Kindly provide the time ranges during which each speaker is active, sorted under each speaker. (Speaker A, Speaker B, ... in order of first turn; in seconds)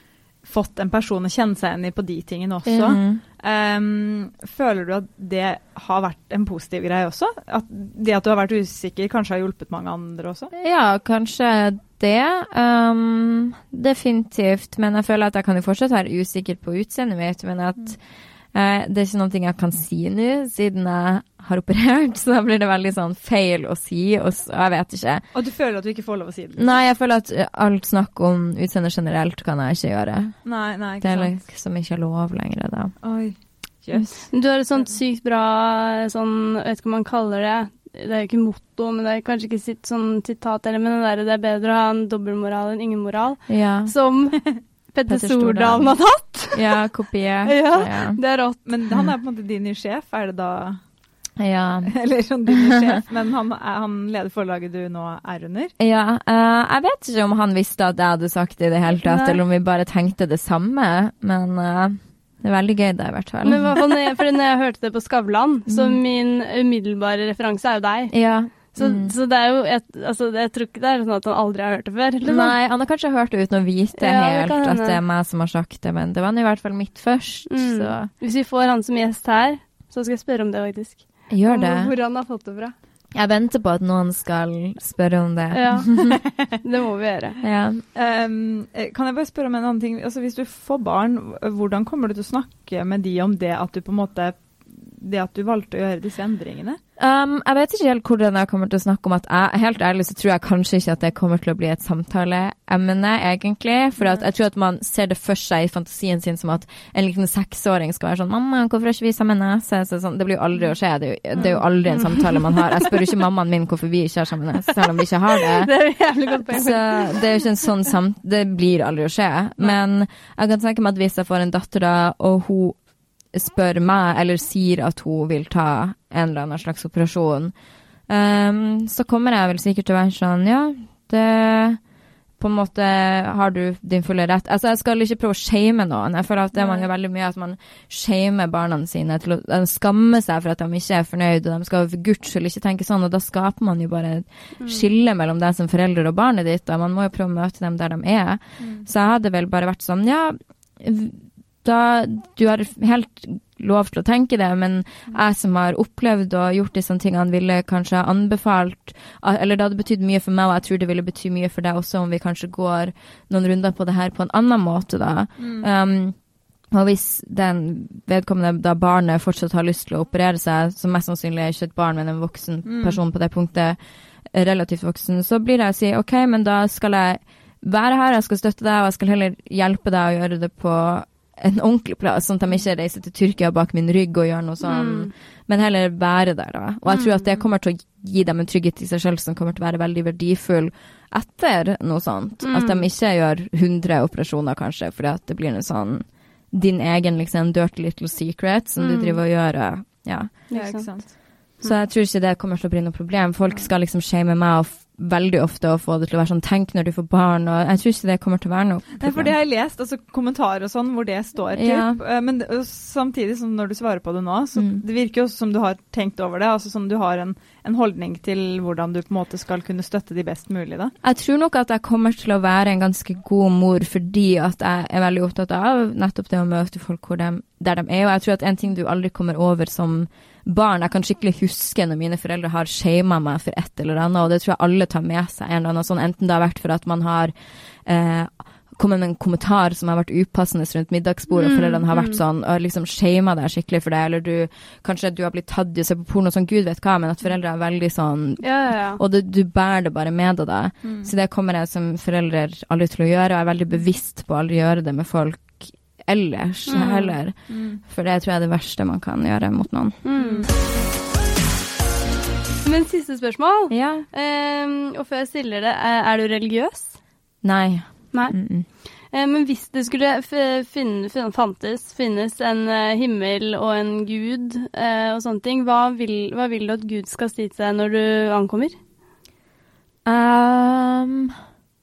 Speaker A: 0.4-10.5, 25.3-26.8, 30.4-31.4, 33.0-35.0, 48.6-50.8, 51.9-55.7, 88.0-96.8, 104.0-104.2, 111.4-111.6, 148.6-148.9, 165.4-165.7, 172.7-173.0, 200.5-201.1, 209.0-220.9, 250.8-251.1, 257.5-257.8, 260.2-260.5
Speaker B: 2.7-3.2, 10.5-18.0, 18.5-25.2, 26.6-30.4, 31.0-33.0, 43.5-43.9, 45.1-46.0, 46.5-48.2, 51.4-51.9, 52.5-53.0, 55.8-63.9, 65.7-66.0, 68.1-69.1, 72.2-78.1, 81.3-81.9, 83.2-86.2, 87.4-87.8, 97.0-115.7, 116.5-122.8, 123.3-127.5, 128.1-131.8, 132.4-166.2, 166.7-173.8, 174.3-200.3, 201.6-209.3, 211.6-212.0, 214.6-214.8, 221.0-260.0, 263.7-264.1, 267.4-268.7, 280.1-281.4
Speaker C: 34.3-46.7, 47.5-48.6, 59.0-59.4, 63.4-72.5, 74.0-75.0, 77.5-82.8, 85.5-87.4, 111.4-112.9, 115.4-117.4, 144.6-144.8, 184.6-185.1, 186.9-187.2, 192.4-192.8, 198.8-199.2, 200.5-201.7, 241.4-242.2, 248.4-249.0, 256.7-257.1, 260.0-260.5, 262.6-267.0, 268.1-278.8